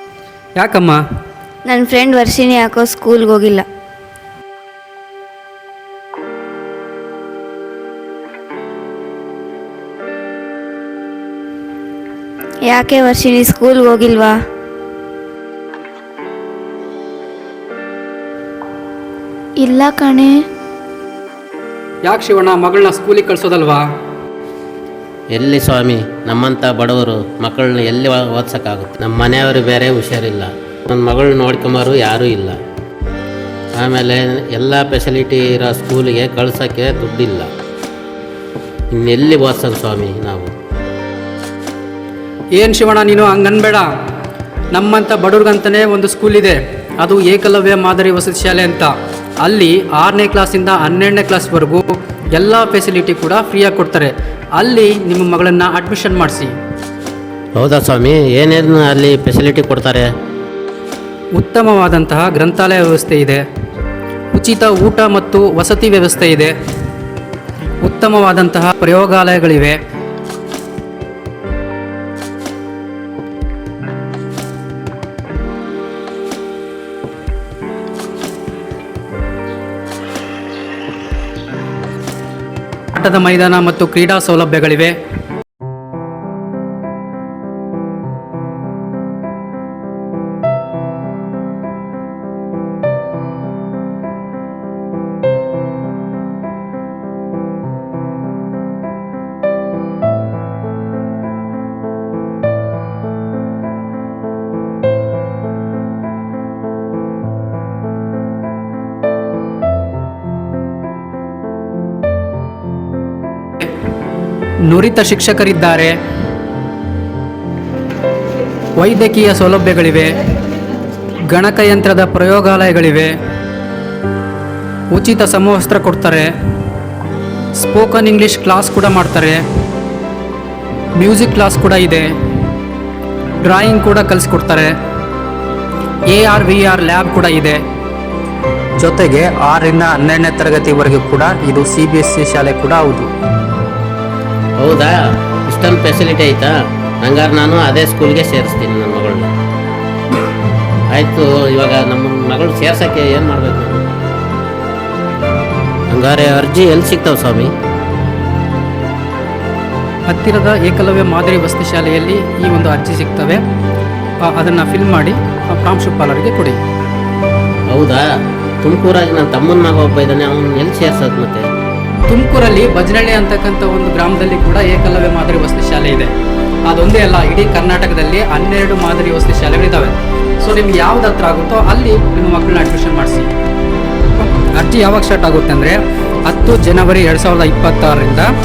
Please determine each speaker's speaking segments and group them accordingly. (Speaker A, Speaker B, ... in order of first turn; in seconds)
Speaker A: 0.6-1.0, 22.1-23.9, 42.6-43.9, 44.7-56.5, 61.4-63.5, 64.3-66.5, 67.8-69.8, 82.9-85.0, 114.6-116.0, 118.8-120.2, 121.3-123.2, 124.9-126.3, 127.6-129.4, 131.0-132.1, 133.4-134.8, 136.1-137.6, 138.8-143.1, 160.1-163.4, 164.2-166.6, 172.1-176.1, 176.7-183.3, 184.4-188.3
Speaker B: 1.7-3.7, 12.6-14.4, 19.6-20.5
Speaker C: 25.3-32.6, 33.8-37.5, 38.9-40.5, 57.6-60.1, 144.6-149.3, 150.9-153.8, 155.9-157.5, 167.7-168.0, 168.6-171.5